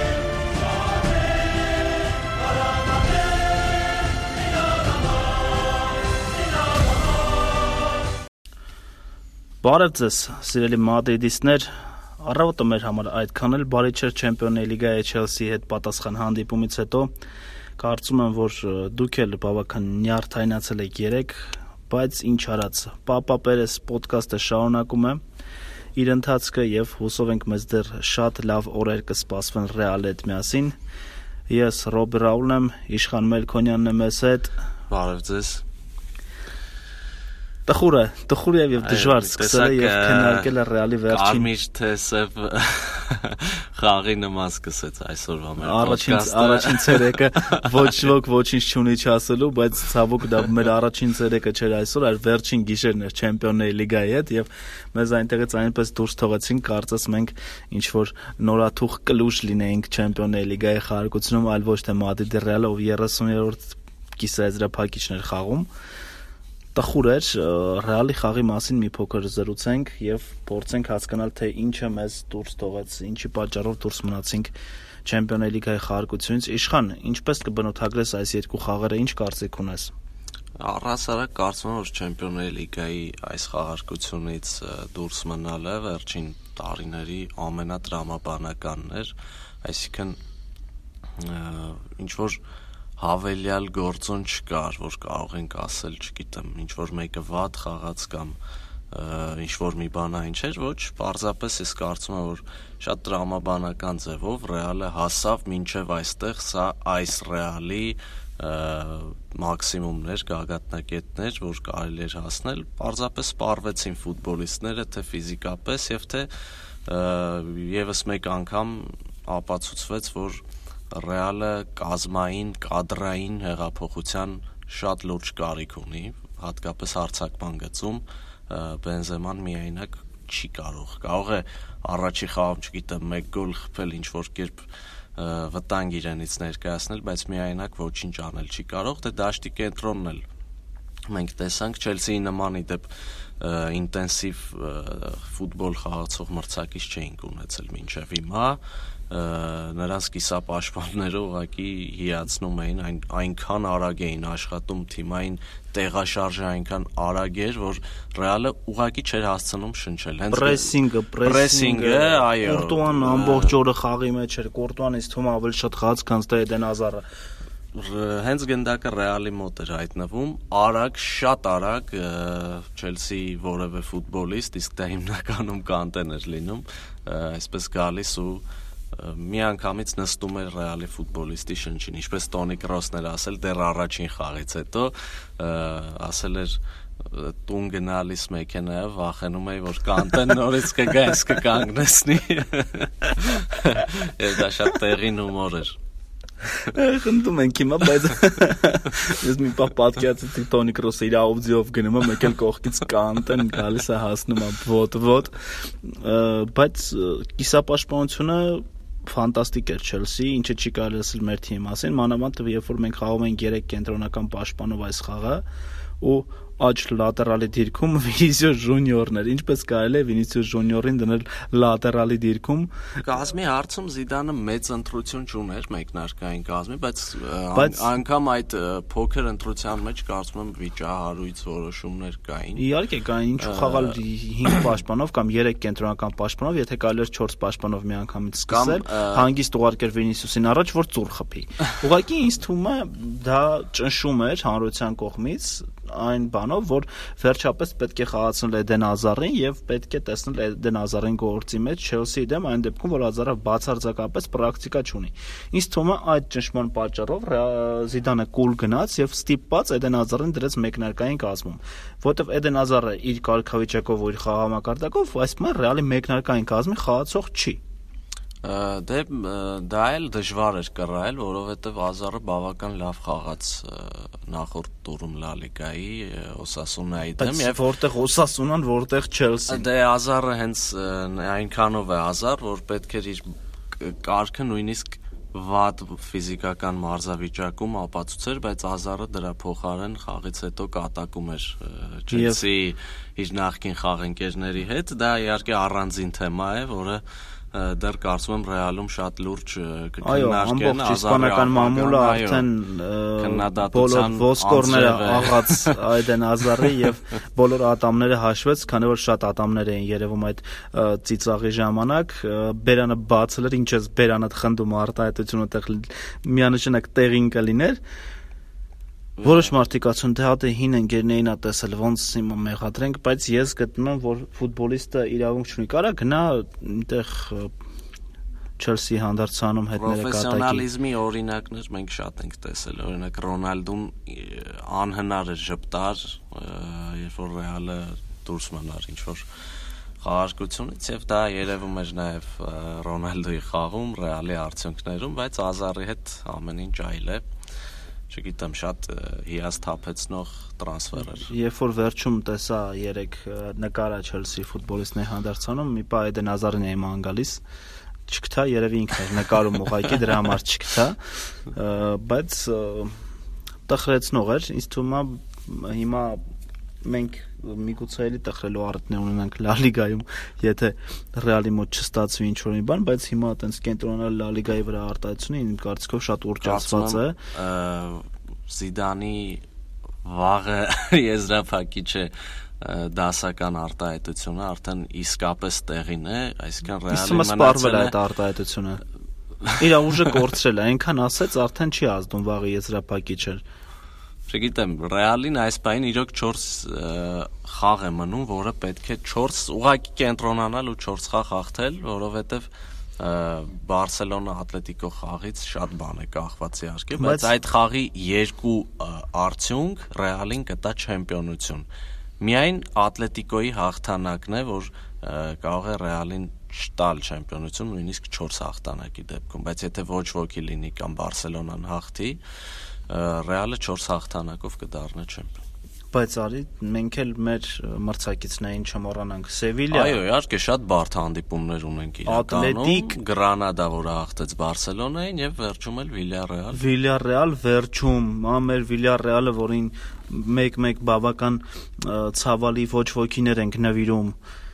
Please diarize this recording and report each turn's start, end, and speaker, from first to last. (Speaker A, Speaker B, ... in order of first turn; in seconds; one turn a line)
Speaker A: 9.6-17.1
Speaker A: 17.8-25.2
Speaker A: 25.9-30.7
Speaker A: 31.5-34.5
Speaker B: 34.9-35.6
Speaker A: 37.6-41.5
Speaker B: 38.8-40.5
Speaker B: 41.1-47.8
Speaker A: 45.6-65.7
Speaker A: 66.7-74.5
Speaker A: 75.0-79.9
Speaker B: 80.6-90.2
Speaker B: 91.2-92.4
Speaker B: 93.0-98.4
Speaker B: 98.9-116.3
Speaker B: 116.8-140.2
Speaker B: 141.1-163.6
Speaker A: 160.3-167.0
Speaker B: 167.7-195.8
Speaker A: 196.6-215.4
Speaker A: 216.0-222.7
Speaker B: 223.0-232.6
Speaker A: 227.5-227.9
Speaker A: 232.5-267.6
Speaker B: 233.4-233.9
Speaker B: 238.5-239.3
Speaker B: 268.4-277.6
Speaker A: 277.2-279.7
Speaker B: 279.5-302.5
Speaker A: 292.1-292.4
Speaker A: 300.0-317.8
Speaker B: 303.2-305.8
Speaker B: 319.2-319.5
Speaker A: 319.2-327.5
Speaker A: 328.6-330.6
Speaker B: 329.7-339.2
Speaker B: 340.0-347.2
Speaker B: 348.1-351.3
Speaker A: 351.1-357.4
Speaker A: 358.1-363.0
Speaker A: 363.7-366.2
Speaker A: 366.8-377.1
Speaker B: 376.4-379.4
Speaker B: 380.0-387.9
Speaker A: 386.9-388.8
Speaker B: 389.4-389.9
Speaker A: 389.6-393.4
Speaker B: 394.3-411.6
Speaker A: 406.9-407.3
Speaker B: 412.2-422.2
Speaker B: 422.9-425.4
Speaker A: 425.9-430.0
Speaker B: 429.7-436.6
Speaker A: 432.1-433.0
Speaker A: 436.5-444.2